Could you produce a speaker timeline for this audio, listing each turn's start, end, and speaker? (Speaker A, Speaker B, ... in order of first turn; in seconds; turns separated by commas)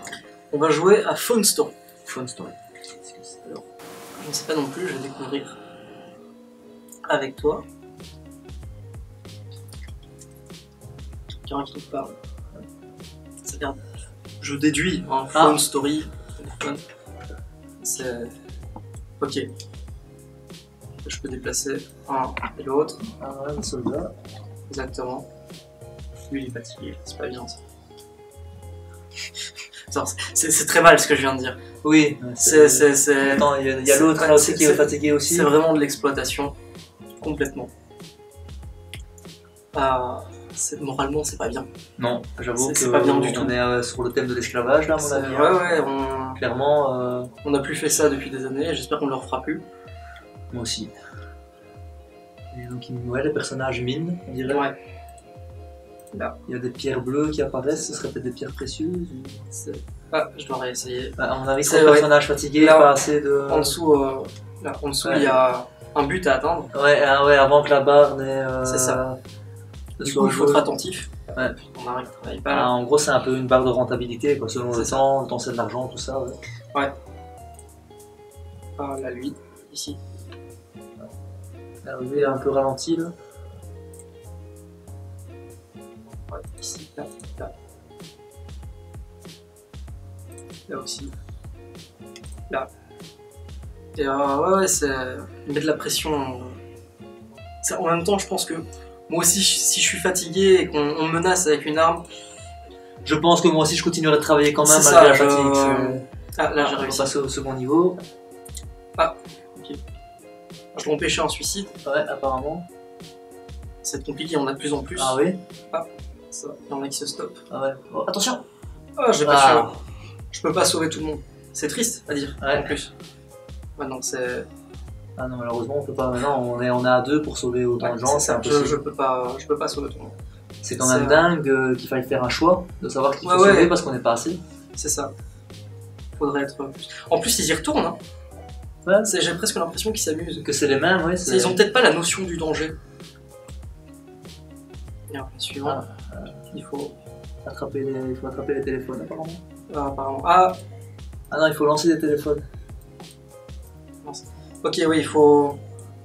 Speaker A: 0.5-1.7, Speaker B: 2.0-2.5, Speaker A: 4.2-5.6, Speaker A: 7.1-7.6, Speaker A: 11.4-12.1, Speaker A: 13.4-13.8, Speaker A: 14.4-16.8, Speaker B: 15.3-15.6, Speaker A: 17.8-18.3, Speaker A: 19.2-19.5, Speaker A: 21.0-23.0, Speaker B: 23.1-24.1, Speaker A: 24.7-25.2, Speaker A: 26.3-27.6, Speaker A: 29.9-31.6, Speaker B: 31.8-35.5, Speaker A: 32.4-36.5, Speaker A: 37.2-37.7, Speaker A: 39.7-41.7, Speaker B: 42.0-47.3, Speaker A: 42.6-43.5, Speaker A: 45.0-46.4, Speaker A: 47.4-49.6, Speaker B: 50.5-50.9, Speaker B: 52.5-54.7, Speaker A: 54.5-54.7, Speaker B: 56.5-59.4, Speaker A: 57.7-58.0, Speaker A: 59.5-63.0, Speaker B: 61.2-63.8, Speaker A: 63.5-66.7, Speaker B: 65.0-65.4, Speaker B: 66.7-69.2, Speaker A: 68.6-69.0, Speaker B: 70.0-70.6, Speaker A: 70.0-72.7, Speaker B: 72.5-76.4, Speaker A: 74.7-75.0, Speaker A: 78.8-80.0, Speaker B: 81.8-83.1, Speaker A: 82.1-82.4, Speaker A: 86.3-87.5, Speaker A: 90.7-91.1, Speaker A: 94.0-96.6, Speaker A: 97.6-102.0, Speaker B: 103.0-106.0, Speaker A: 104.6-107.1, Speaker B: 106.6-108.0, Speaker A: 109.0-109.8, Speaker A: 110.7-111.7, Speaker B: 111.8-112.7, Speaker A: 113.8-115.2, Speaker B: 115.0-115.4, Speaker A: 115.7-117.4, Speaker B: 117.5-118.4, Speaker A: 119.0-119.8, Speaker B: 119.2-119.7, Speaker A: 120.3-122.9, Speaker B: 122.4-122.7, Speaker A: 123.8-124.5, Speaker B: 125.2-128.8, Speaker A: 127.8-130.2, Speaker B: 130.6-134.4, Speaker A: 130.8-131.2, Speaker A: 133.2-133.7, Speaker A: 134.8-135.1, Speaker A: 136.2-138.0, Speaker B: 138.8-139.1, Speaker A: 139.0-140.4, Speaker B: 140.3-141.6, Speaker A: 141.2-142.8, Speaker A: 145.1-145.8, Speaker B: 145.6-146.4, Speaker A: 146.5-146.9, Speaker B: 147.4-149.4, Speaker A: 149.7-150.6, Speaker B: 151.3-152.4, Speaker A: 154.0-155.6